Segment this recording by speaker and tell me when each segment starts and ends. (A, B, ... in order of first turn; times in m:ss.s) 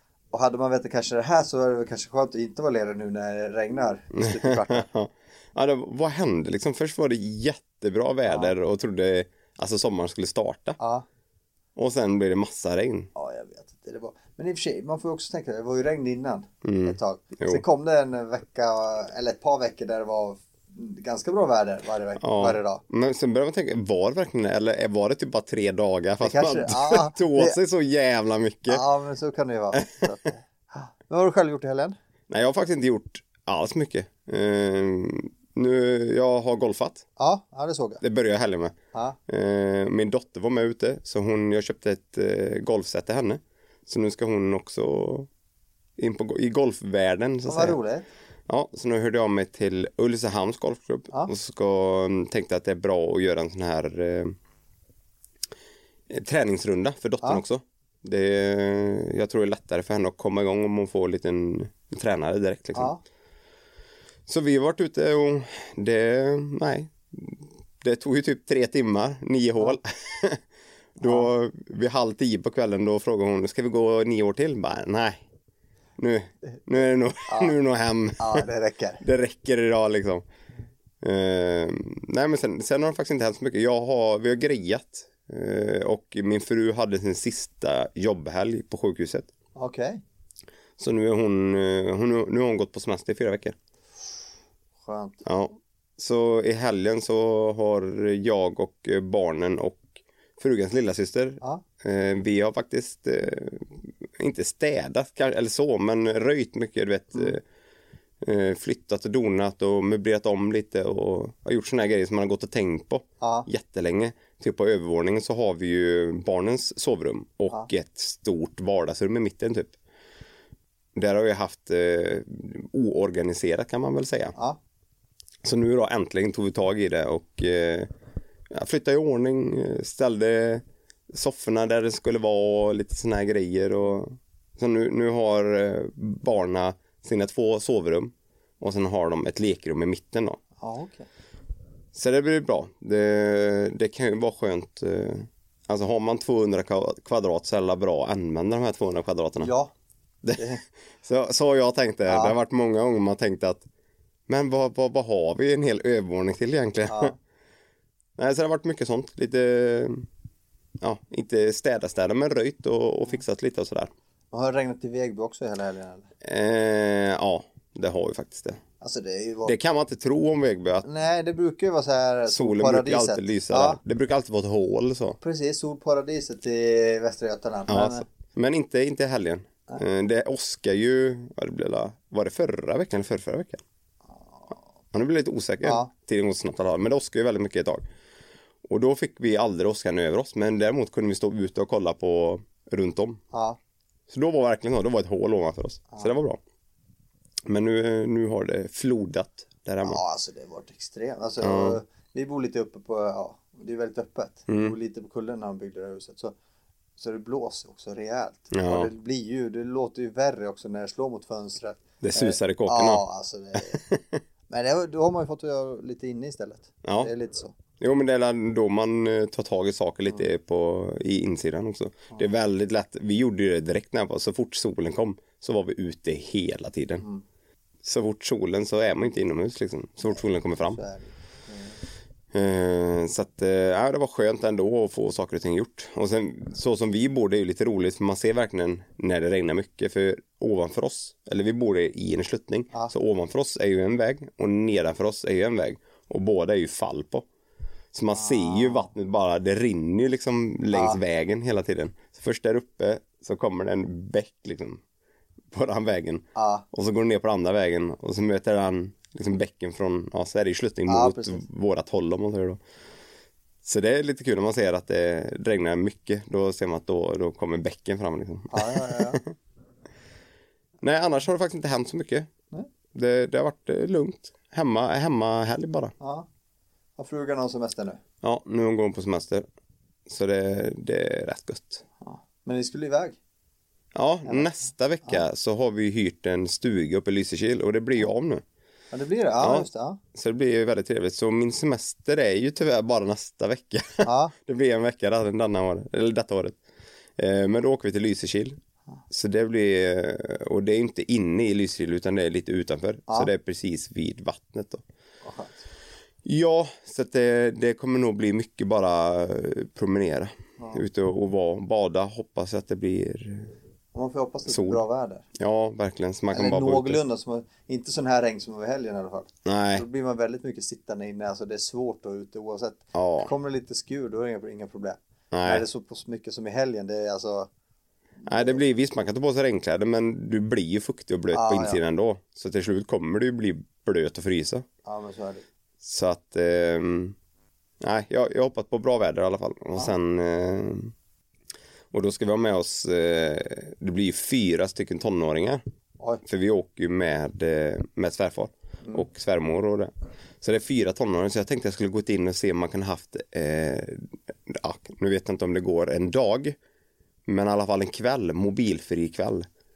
0:00.3-0:04.9 A
0:04.1-0:10.8 B
0:08.3-0:08.6 A
0:10.8-0:11.0 A
0:11.8-0:13.1 B
0:13.1-0:22.8 A
0:16.6-0:17.6 B
0:22.2-0:28.8 B
0:26.2-0:27.6 A
0:28.7-0:31.9 A
0:29.7-0:30.0 B
0:32.3-0:37.0 B
0:37.2-0:38.0 A
0:38.0-0:38.8 B
0:38.9-0:39.2 A
0:39.3-0:45.3 B
0:46.0-0:47.8 B
0:47.5-0:48.1 A
0:48.5-0:54.3 B
0:56.1-1:02.9 B
1:02.7-1:03.0 A
1:04.3-1:10.4 B
1:11.0-1:15.2 B
1:11.0-1:11.3 A
1:16.0-1:18.5 B
1:17.3-1:17.6 A
1:18.2-1:19.0 A
1:19.0-1:20.2 B
1:21.0-1:29.3 B
1:29.5-1:30.0 A
1:30.8-1:33.5 B
1:34.8-1:35.2 A
1:35.2-1:47.4 B
1:48.2-1:59.7 B
1:53.2-1:53.5 A
2:00.9-2:04.3 B
2:05.4-2:07.9 B
2:08.5-2:20.4 B
2:20.6-2:21.1 A
2:21.9-2:29.5 B
2:29.4-2:29.7 A
2:30.2-2:33.6 B
2:30.4-2:30.6 A
2:32.0-2:32.4 A
2:34.3-2:37.1 B
2:36.8-2:37.2 A
2:38.2-2:40.0 B
2:40.8-2:43.9 B
2:44.3-2:46.1 A
2:46.2-2:48.6 B
2:48.8-2:49.5 A
2:49.4-2:50.8 B
2:50.8-2:53.8 A
2:52.3-2:55.2 B
2:55.2-2:58.0 A
2:57.7-3:03.6 B
3:04.2-3:04.5 A
3:04.9-3:07.8 B
3:05.6-3:05.9 A
3:08.7-3:13.2 B
3:13.3-3:13.6 A
3:14.1-3:16.4 B
3:17.5-3:20.0 B
3:19.8-3:26.3 A
3:21.4-3:21.8 B
3:24.5-3:24.7 B
3:27.0-3:33.8 A
3:28.5-3:28.9 B
3:32.0-3:33.0 B
3:33.6-3:34.2 B
3:34.5-3:37.5 A
3:36.8-3:37.1 B
3:37.8-3:47.0 B
3:47.8-3:50.8 B
3:50.0-3:51.8 A
3:52.3-4:07.2 B
4:07.9-4:14.8 B
4:08.1-4:08.9 A
4:10.7-4:11.0 A
4:15.5-4:22.6 B
4:16.3-4:16.6 A
4:20.9-4:21.4 A
4:23.6-4:29.3 B
4:28.5-4:29.2 A
4:30.8-4:32.3 B
4:32.9-4:35.9 B
4:36.0-4:36.3 A
4:37.0-4:38.0 A
4:38.2-4:39.4 B
4:40.0-4:41.8 B
4:42.0-4:43.2 A
4:43.9-4:48.4 B
4:44.3-4:44.5 A
4:48.9-4:50.0 A
4:49.4-4:56.6 B
4:54.0-4:54.3 A
4:57.2-4:58.6 B
4:59.1-5:04.8 B
5:05.2-5:05.6 A
5:06.2-5:13.5 B
5:10.6-5:10.8 A
5:13.9-5:15.2 A
5:14.4-5:14.8 B
5:15.4-5:17.0 B
5:16.3-5:27.5 A
5:19.4-5:19.8 B
5:22.9-5:23.3 B
5:25.3-5:25.6 B
5:28.2-5:28.6 A
5:28.2-5:34.6 B
5:31.3-5:31.8 A
5:34.8-5:35.4 A
5:35.8-5:37.1 B
5:37.8-5:40.9 B
5:41.9-5:45.6 B
5:46.2-5:49.9 B
5:50.4-5:56.6 B
5:57.2-5:59.4 B